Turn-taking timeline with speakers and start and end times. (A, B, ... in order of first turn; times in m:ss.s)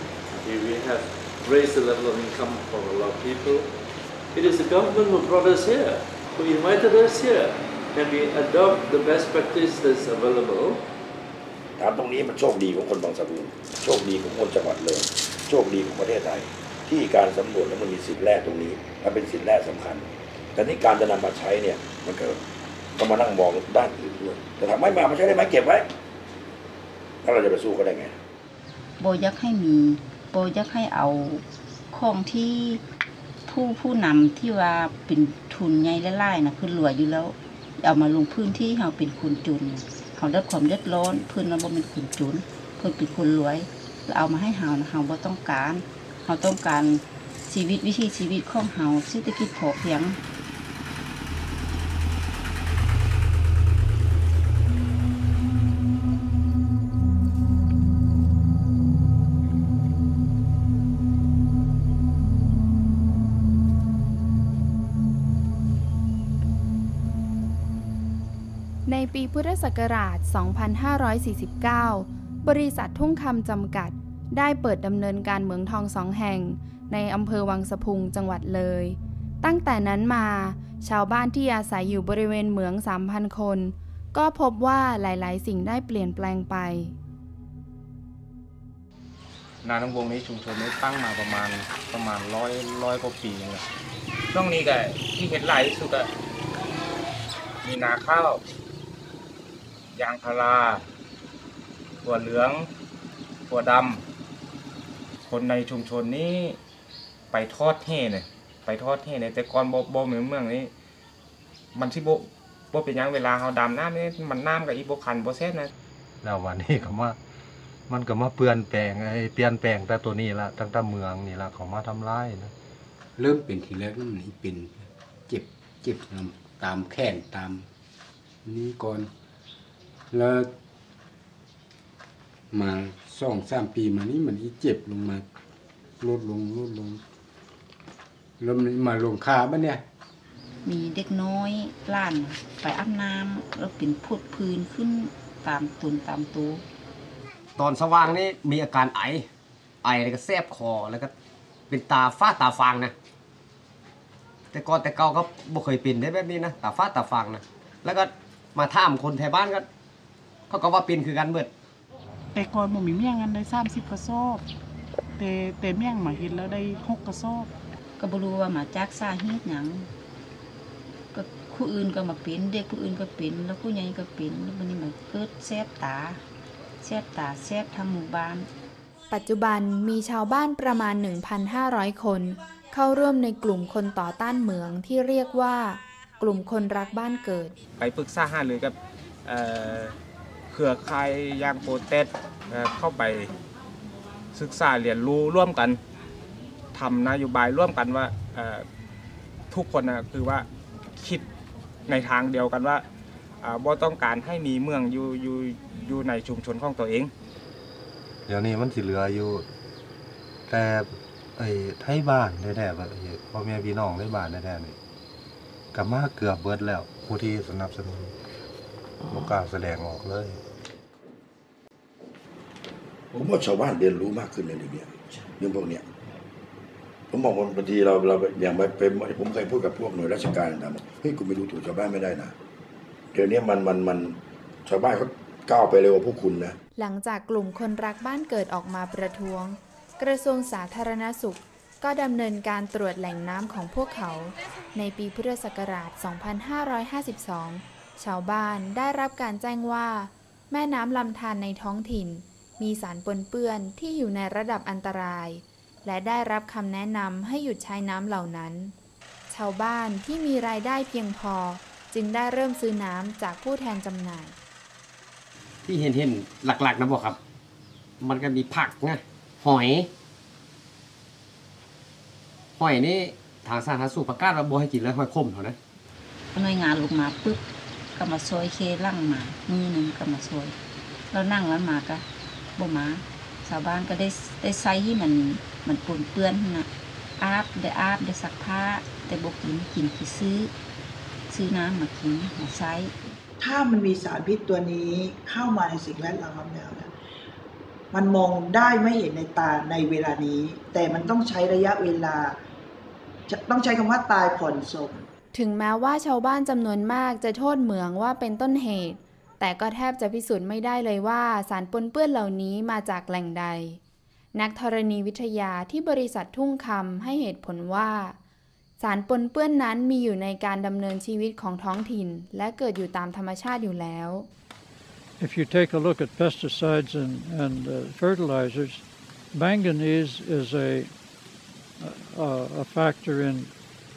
0:00.3-0:03.7 A
0:04.3-0:10.9 A
0:11.8-0:22.4 B
0:23.0-0:25.9 B
0:27.2-0:28.2 B
0:29.0-0:32.8 C
0:33.5-0:50.2 C
1:08.9-1:26.9 D
1:29.6-1:33.6 E
1:34.3-1:36.1 E
1:37.6-1:38.4 E
1:39.9-1:40.8 E
1:42.0-1:42.6 E
1:43.5-1:44.0 E
1:45.2-1:46.6 E
1:47.3-1:50.7 E
1:51.7-1:55.7 E
1:56.2-1:57.2 F
1:57.9-2:02.5 F
2:03.2-2:07.6 G
2:08.4-2:09.1 G
2:10.1-2:10.5 G
2:12.5-2:15.2 G
2:16.0-2:17.0 G
2:18.4-2:19.8 G
2:20.6-2:26.6 C
2:27.6-2:29.3 H
2:29.8-2:31.1 H
2:31.7-2:32.9 H
2:34.5-2:39.7 H
2:40.5-2:41.5 H
2:42.3-2:44.4 I
2:45.2-2:47.5 I
2:48.0-2:49.9 C
2:51.1-2:56.2 C
2:56.8-2:58.5 C
2:59.1-3:07.6 D
3:07.8-3:09.9 E
3:10.5-3:13.3 E
3:14.3-3:15.8 E
3:16.7-3:18.6 E
3:19.5-3:20.5 E
3:21.0-3:21.3 E
3:21.9-3:22.8 E
3:23.4-3:27.1 E
3:28.3-3:29.4 F
3:30.5-3:34.8 F
3:35.7-3:38.1 F
3:39.1-3:40.4 F
3:43.1-3:45.8 B
3:47.1-3:52.3 B
3:53.1-3:56.6 B
3:56.8-4:18.7 D
4:19.3-4:24.4 D
4:25.6-4:27.2 H
4:28.0-4:29.9 H
4:32.6-4:35.6 H
4:36.3-4:37.4 C
4:37.9-4:40.5 C
4:41.1-4:42.0 C
4:42.6-4:46.7 C
4:47.2-4:50.5 C
4:51.3-4:52.9 C
4:53.4-4:56.9 J
4:57.9-5:02.4 J
5:03.3-5:05.0 J
5:05.3-5:13.8 D
5:14.3-5:18.2 D
5:18.8-5:24.3 D
5:25.2-5:30.9 K
5:31.8-5:33.5 K